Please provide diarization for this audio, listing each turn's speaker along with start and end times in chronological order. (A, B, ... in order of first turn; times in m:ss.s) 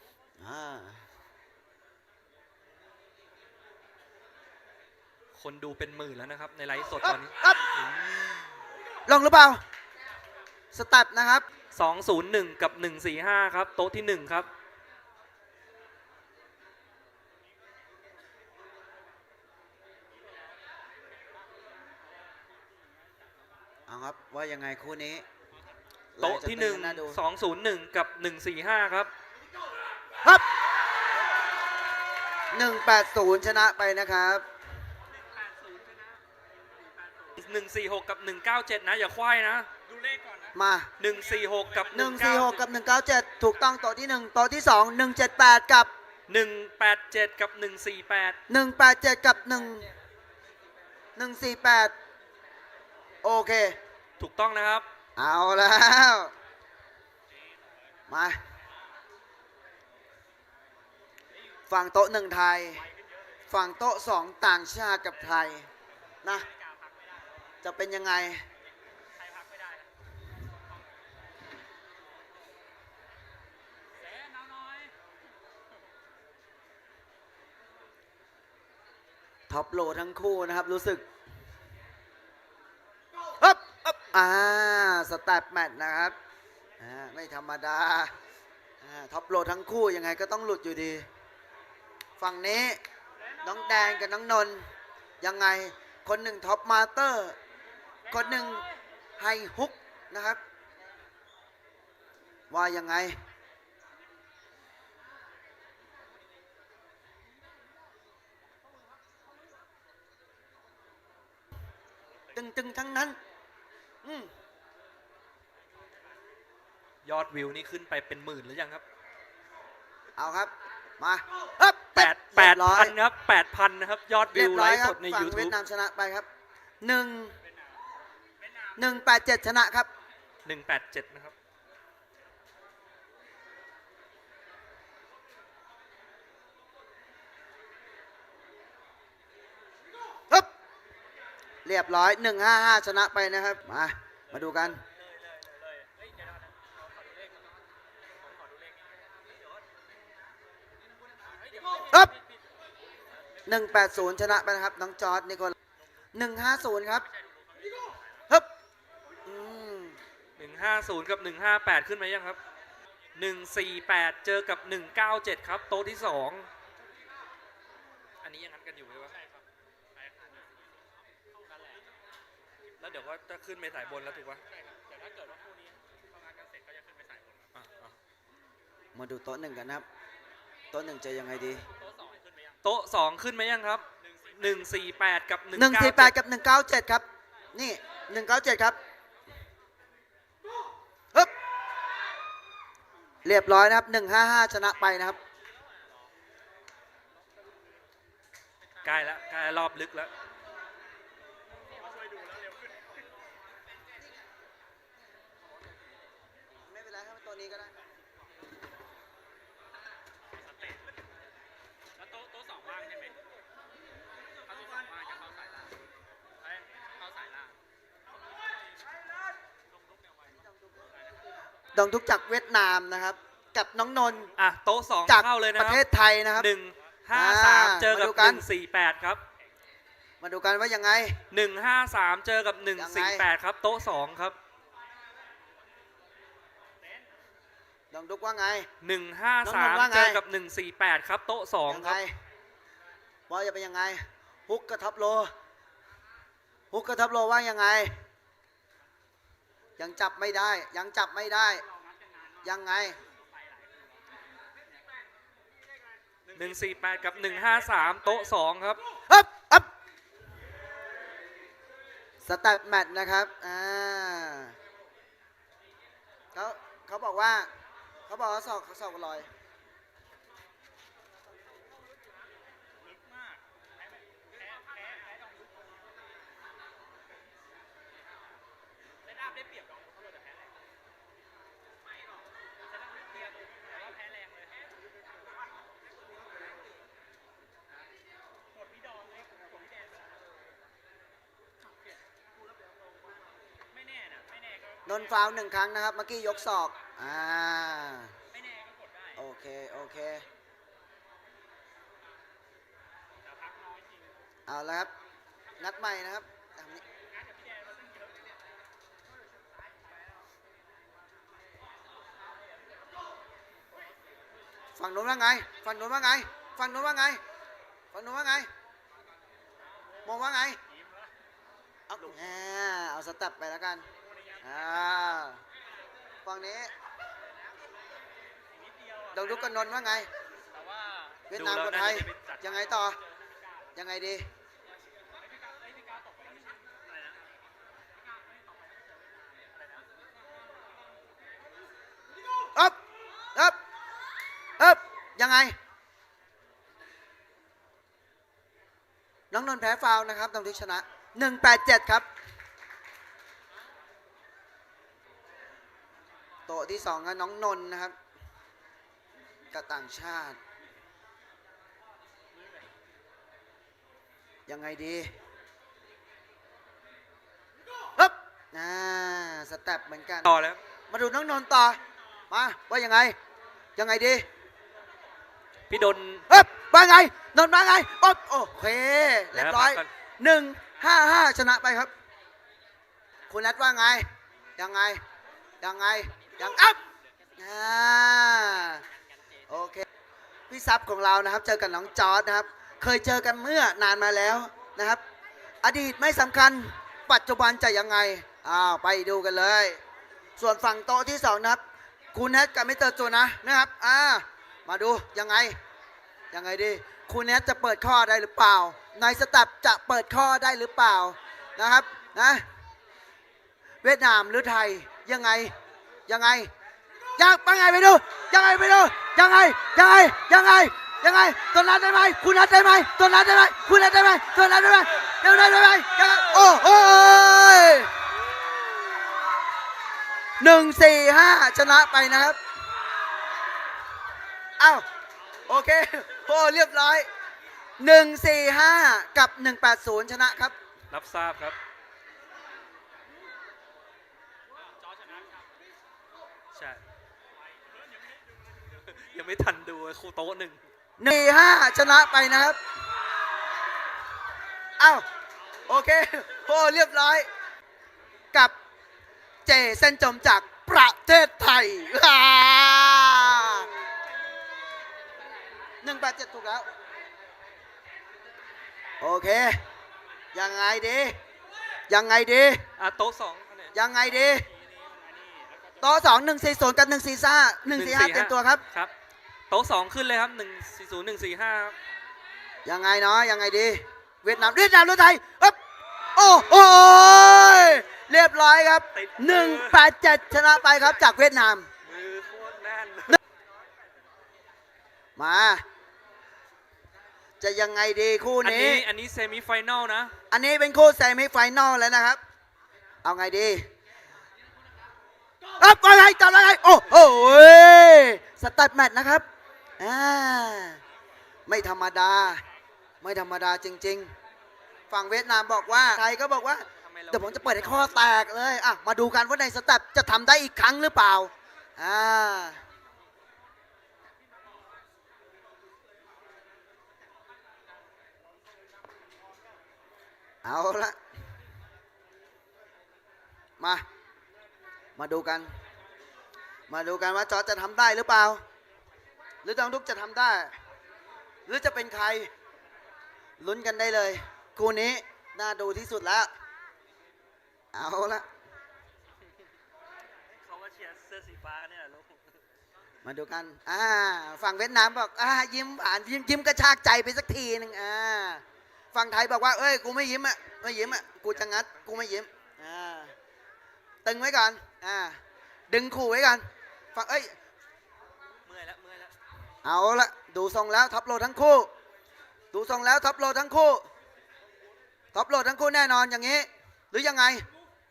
0:00.4-0:01.0 A
0:05.3-0:08.3 B
0:07.0-0:07.7 A
0:09.1-0:09.6 A
0:10.7-0:11.4 A
0:11.7-0:14.5 B
0:23.9-0:25.2 A
0:26.2-0:27.2 A
0:26.2-0:29.1 B
0:32.5-0:34.4 A
0:35.3-0:36.2 C
0:36.9-0:37.3 C
0:37.3-0:39.7 B
0:39.9-0:40.5 C
0:40.5-0:40.9 A
0:41.0-0:42.6 B
0:41.3-0:41.9 C
0:41.9-0:45.9 A
0:46.3-0:48.4 B
0:48.5-0:49.9 A
0:51.2-0:51.9 A
0:53.2-0:53.8 A
0:54.2-0:54.8 B
0:55.2-0:56.3 A
0:58.1-0:58.4 A
1:01.7-1:02.8 A
1:03.5-1:05.7 A
1:06.5-1:07.3 C
1:07.6-1:08.4 A
1:09.2-1:09.8 C
1:14.0-1:14.9 C
1:19.5-1:21.0 A
1:23.4-1:26.2 A
1:26.8-1:28.1 A
1:28.8-1:31.1 A
1:32.2-1:32.8 A
1:33.4-1:34.7 A
1:35.2-1:37.4 A
1:38.1-1:38.6 A
1:39.2-1:40.4 A
1:42.5-1:43.2 A
1:52.3-1:53.2 A
1:54.0-1:54.3 A
1:57.0-1:58.8 B
2:00.2-2:02.9 A
2:02.0-2:05.6 B
2:04.3-2:06.3 A
2:06.8-2:07.4 A
2:08.8-2:09.9 A
2:10.4-2:11.3 B
2:21.6-2:24.8 A
2:25.2-2:27.3 C
2:28.2-2:28.8 C
2:31.4-2:31.9 C
2:33.4-2:35.6 A
2:36.1-2:37.0 A
2:37.1-2:38.0 C
2:39.2-2:40.0 A
2:40.4-2:42.4 B
2:43.2-2:46.5 B
2:48.2-2:49.2 B
2:50.0-2:50.5 C
2:51.4-2:51.8 C
2:52.8-2:54.4 B
2:54.5-2:57.5 C
2:57.5-2:58.0 B
2:58.9-2:59.8 A
3:00.7-3:01.6 A
3:01.8-3:02.6 C
3:02.6-3:06.1 B
3:05.5-3:08.8 A
3:13.2-3:15.2 A
3:18.8-3:20.1 B
3:22.0-3:22.6 C
3:26.6-3:27.7 A
3:32.0-3:33.1 C
3:34.5-3:35.7 C
3:37.0-3:37.5 C
3:41.7-3:44.3 A
3:44.4-3:45.8 B
3:45.1-3:46.5 A
3:46.4-3:49.2 B
3:47.1-3:48.4 A
3:50.2-3:51.2 A
3:51.3-3:54.4 B
3:52.8-3:53.3 A
3:57.9-3:58.7 A
3:58.8-4:02.0 B
3:59.4-4:00.2 A
4:01.7-4:02.2 A
4:03.3-4:05.3 A
4:06.7-4:08.0 A
4:09.8-4:11.6 A
4:12.4-4:13.0 A
4:13.4-4:13.8 C
4:16.3-4:18.8 B
4:19.1-4:19.7 A
4:22.2-4:24.6 A
4:26.3-4:27.5 A
4:28.1-4:29.3 A
4:32.9-4:33.4 C
4:34.2-4:35.3 C
4:39.1-4:40.5 C
4:42.9-4:44.6 C
4:48.6-4:49.9 C
4:53.8-4:54.8 C
4:54.8-4:58.1 A
4:58.3-4:59.1 C
4:59.2-5:00.2 A
5:03.2-5:04.0 C
5:04.5-5:04.9 A
5:05.6-5:06.8 A
5:07.2-5:08.1 C
5:14.8-5:17.2 A
5:17.9-5:18.5 A
5:20.0-5:20.6 A
5:20.7-5:21.1 C
5:21.9-5:23.9 A
5:24.0-5:24.4 C
5:24.4-5:25.4 A
5:26.2-5:26.7 A
5:28.6-5:29.3 C
5:29.1-5:30.1 A
5:30.5-5:31.2 C
5:31.3-5:33.0 A
5:31.3-5:32.6 B
5:32.6-5:33.4 C
5:33.7-5:34.3 A
5:35.3-5:36.5 C
5:39.3-5:39.8 C
5:44.6-5:45.5 A
5:49.3-5:52.1 A
5:56.5-5:57.9 A
5:59.5-6:00.4 A
6:04.5-6:05.1 A
6:08.0-6:10.3 A
6:10.2-6:10.6 B
6:10.9-6:11.8 A
6:12.3-6:13.2 A
6:13.8-6:14.2 A
6:15.7-6:16.2 B
6:16.3-6:21.9 A
6:19.3-6:19.9 B
6:23.3-6:25.0 A
6:25.6-6:26.8 A
6:27.4-6:28.8 A
6:29.5-6:29.8 A
6:30.5-6:35.0 A
6:35.6-6:39.8 A
6:40.4-6:41.6 A
6:42.1-6:45.6 A
6:46.3-6:52.4 A
6:53.8-6:55.5 A
6:56.1-6:56.5 A
6:57.2-7:07.9 A
7:10.4-7:12.4 A
7:14.6-7:14.8 A
7:15.5-7:17.1 A
7:17.8-7:20.5 A
7:20.9-7:21.6 B
7:24.8-7:25.4 C
7:26.5-7:26.8 B
7:28.7-7:30.6 B
7:31.0-7:32.6 A
7:34.8-7:35.0 A
7:35.6-7:37.3 A
7:39.4-7:43.7 A
7:45.8-7:46.7 A
7:49.0-7:49.6 A
7:50.3-7:51.2 A
7:51.9-7:52.6 A
7:52.8-7:53.7 B
7:53.7-7:54.5 A
7:54.6-7:55.8 C
7:55.8-7:58.6 A
7:57.7-7:58.9 B
7:59.5-8:01.7 B
8:02.6-8:05.6 A
8:06.1-8:11.7 A
8:08.9-8:09.9 B
8:11.8-8:13.2 B
8:15.2-8:15.6 A
8:17.4-8:18.8 A
8:18.4-8:20.1 B
8:20.3-8:22.2 A
8:23.0-8:23.7 A
8:25.6-8:29.2 A
8:29.8-8:30.8 A
8:31.5-8:32.4 A
8:33.0-8:34.1 A
8:34.9-8:42.6 A
8:36.8-8:38.2 B
8:50.4-8:51.0 A
8:53.6-8:53.8 A
8:55.0-8:55.5 A
8:56.7-8:58.4 A
8:59.4-9:00.5 A
9:01.4-9:02.3 A
9:03.4-9:06.3 A
9:07.7-9:08.2 A
9:10.3-9:12.4 B
9:13.0-9:18.4 A
9:18.9-9:23.1 A
9:20.7-9:22.0 B
9:24.0-9:27.3 A
9:28.4-9:29.1 B
9:29.6-9:31.7 A
9:32.5-9:33.8 A
9:35.1-9:37.4 A